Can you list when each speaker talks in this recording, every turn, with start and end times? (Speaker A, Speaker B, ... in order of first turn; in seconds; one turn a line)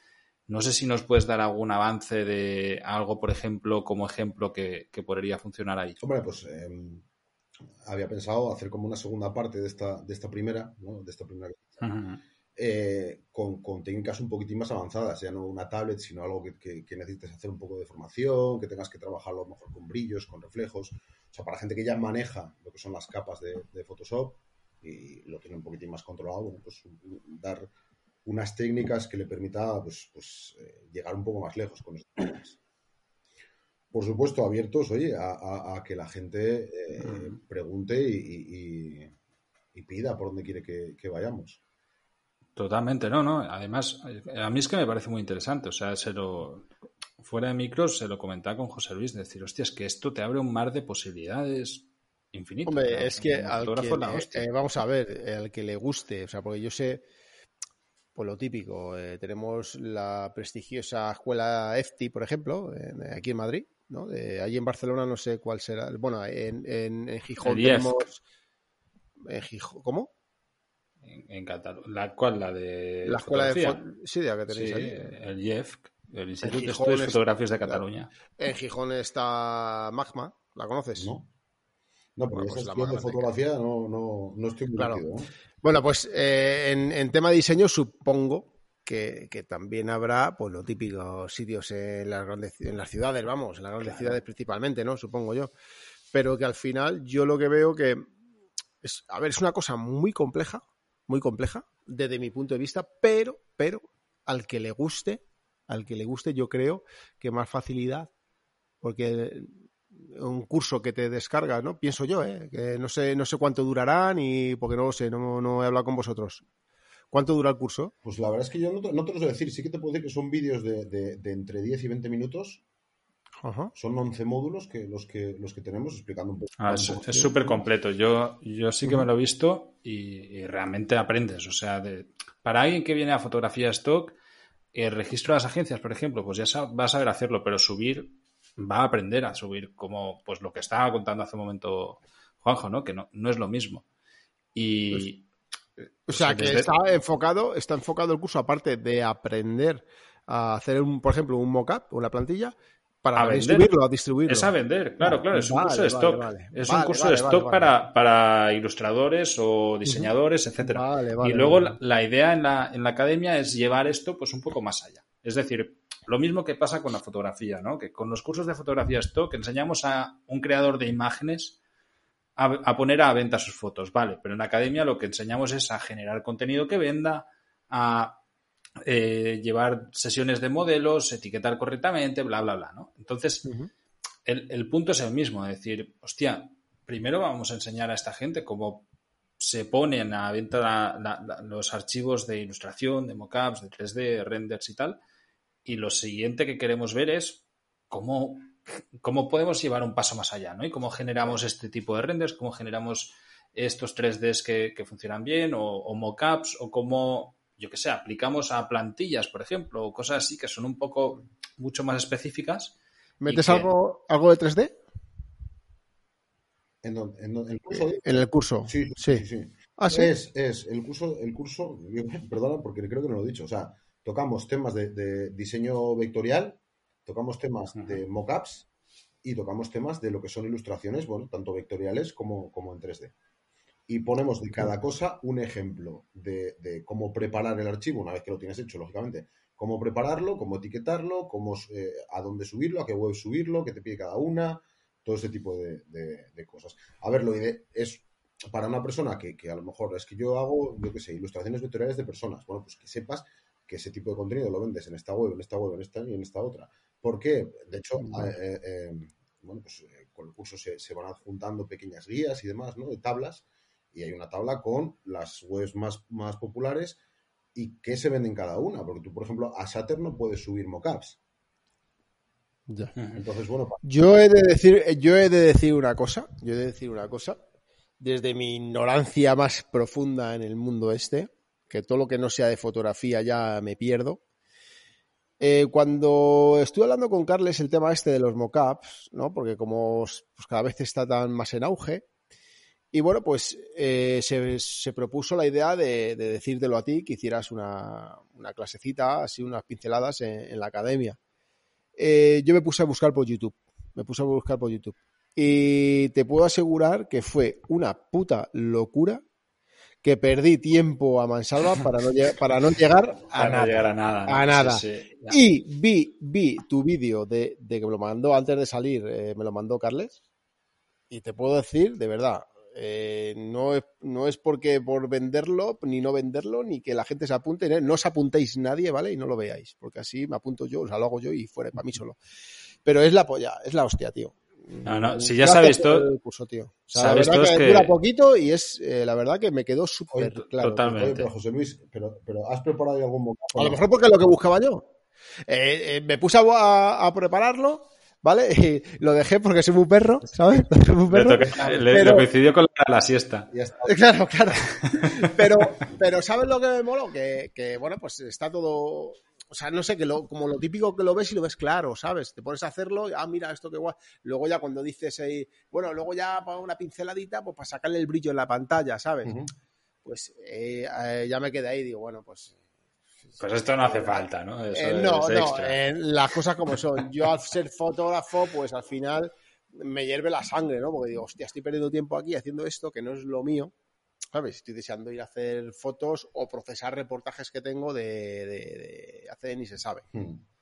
Speaker A: 0.5-6.0
Speaker B: 6.0-7.0
Speaker B: 7.8-11.8
Speaker A: 11.8-12.2
Speaker B: 12.6-27.7
Speaker B: 28.2-32.6
Speaker B: 33.9-39.1
Speaker A: 37.0-37.3
Speaker B: 39.7-41.6
Speaker A: 42.5-46.7
Speaker A: 47.2-54.4
Speaker C: 52.6-57.0
Speaker C: 58.1-68.2
Speaker A: 67.4-68.1
Speaker C: 69.2-70.1
Speaker A: 71.0-73.8
Speaker C: 73.0-75.1
Speaker A: 74.5-78.1
Speaker C: 76.4-77.8
Speaker C: 78.4-81.1
Speaker B: 81.0-81.3
Speaker B: 82.2-85.3
Speaker C: 82.3-83.3
Speaker C: 84.8-85.0
Speaker C: 85.6-95.5
Speaker C: 96.1-98.1
Speaker C: 98.8-108.1
Speaker C: 108.8-116.4
Speaker C: 117.1-117.9
Speaker B: 118.0-122.6
Speaker C: 123.4-123.7
Speaker B: 123.7-127.3
Speaker A: 126.6-134.2
Speaker C: 127.1-127.3
Speaker A: 134.7-143.8
Speaker A: 144.5-145.2
Speaker A: 146.1-146.7
Speaker C: 146.1-157.7
Speaker A: 153.2-153.7
Speaker A: 154.2-171.6
Speaker C: 159.8-161.8
Speaker A: 172.4-178.2
Speaker A: 178.8-183.5
Speaker C: 183.4-183.7
Speaker A: 184.2-188.9
Speaker A: 189.4-195.0
Speaker A: 195.6-212.8
Speaker C: 213.2-214.8
Speaker A: 213.3-213.7
Speaker B: 216.8-228.7
Speaker C: 217.7-219.2
Speaker C: 219.8-220.1
Speaker B: 229.2-233.1
Speaker B: 233.9-267.0
Speaker C: 258.0-258.3
Speaker B: 267.5-271.2
Speaker C: 272.7-272.9
Speaker B: 273.1-273.8
Speaker C: 273.8-277.4
Speaker C: 278.0-284.2
Speaker C: 285.4-292.1
Speaker C: 292.9-301.2
Speaker C: 302.0-309.2
Speaker C: 310.0-320.2
Speaker A: 313.3-315.4
Speaker C: 321.1-332.2
Speaker C: 332.8-340.7
Speaker A: 334.8-336.1
Speaker A: 336.9-337.9
Speaker B: 340.1-343.8
Speaker A: 340.5-341.3
Speaker C: 343.6-344.9
Speaker C: 345.5-352.3
Speaker A: 351.1-353.5
Speaker B: 353.5-354.0
Speaker C: 353.8-369.4
Speaker B: 369.2-369.5
Speaker C: 370.0-372.6
Speaker C: 373.2-383.7
Speaker A: 373.4-375.8
Speaker C: 384.3-390.1
Speaker B: 390.1-390.4